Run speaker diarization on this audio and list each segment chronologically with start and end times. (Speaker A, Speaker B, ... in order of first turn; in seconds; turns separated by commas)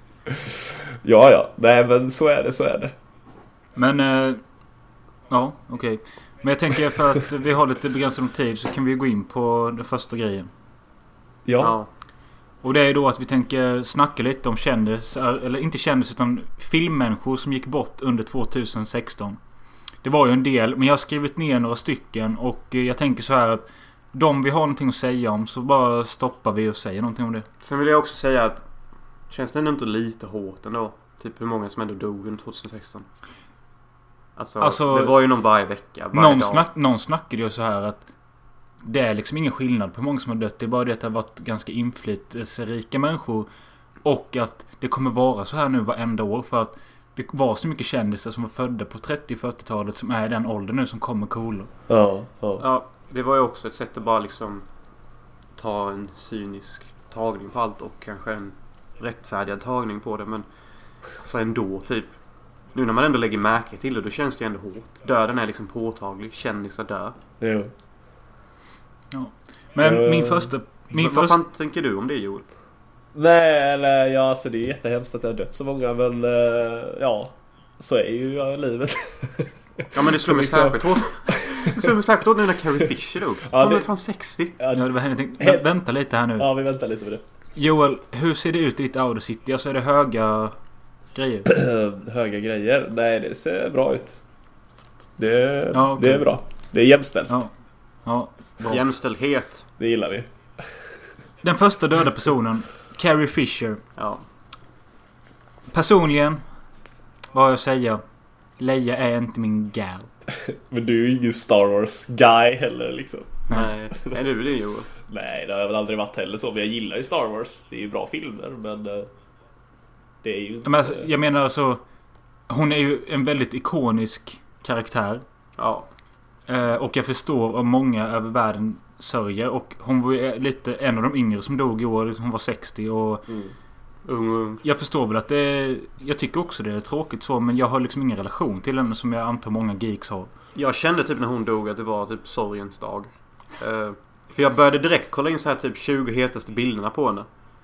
Speaker A: 0.3-2.9, Speaker B: 3.8-4.4, Speaker B: 5.3-10.5, Speaker A: 11.5-11.8, Speaker C: 11.6-11.9, Speaker B: 12.6-19.4, Speaker B: 20.0-27.5, Speaker C: 27.6-28.6, Speaker C: 29.3-33.1, Speaker C: 34.4-36.6, Speaker B: 34.6-35.2, Speaker B: 36.1-38.1, Speaker B: 38.8-43.5, Speaker B: 44.0-51.7, Speaker A: 51.9-52.6, Speaker C: 52.6-54.6, Speaker C: 55.6-60.5, Speaker C: 61.2-62.1, Speaker C: 62.7-67.2, Speaker A: 67.4-67.7, Speaker B: 69.1-71.4, Speaker A: 69.8-70.5, Speaker C: 70.9-72.5, Speaker A: 73.1-81.9, Speaker C: 79.9-84.6, Speaker A: 83.4-83.9, Speaker A: 84.6-85.7, Speaker B: 84.7-86.5, Speaker A: 86.4-87.2, Speaker B: 87.5-90.5, Speaker B: 91.1-91.5, Speaker A: 91.5-94.2, Speaker A: 95.2-97.3, Speaker B: 95.7-96.3, Speaker B: 98.0-98.8, Speaker C: 98.7-99.7, Speaker A: 99.8-100.3, Speaker B: 101.4-103.8, Speaker C: 104.0-104.2, Speaker B: 105.7-106.4, Speaker B: 107.3-108.0, Speaker B: 108.6-110.1, Speaker A: 110.3-113.5, Speaker C: 113.5-114.9, Speaker A: 115.1-119.1, Speaker A: 120.2-121.1, Speaker B: 120.6-121.8, Speaker B: 122.5-125.2, Speaker C: 125.6-125.9, Speaker B: 126.5-133.3, Speaker C: 134.1-134.6, Speaker B: 134.6-140.3, Speaker C: 140.6-147.3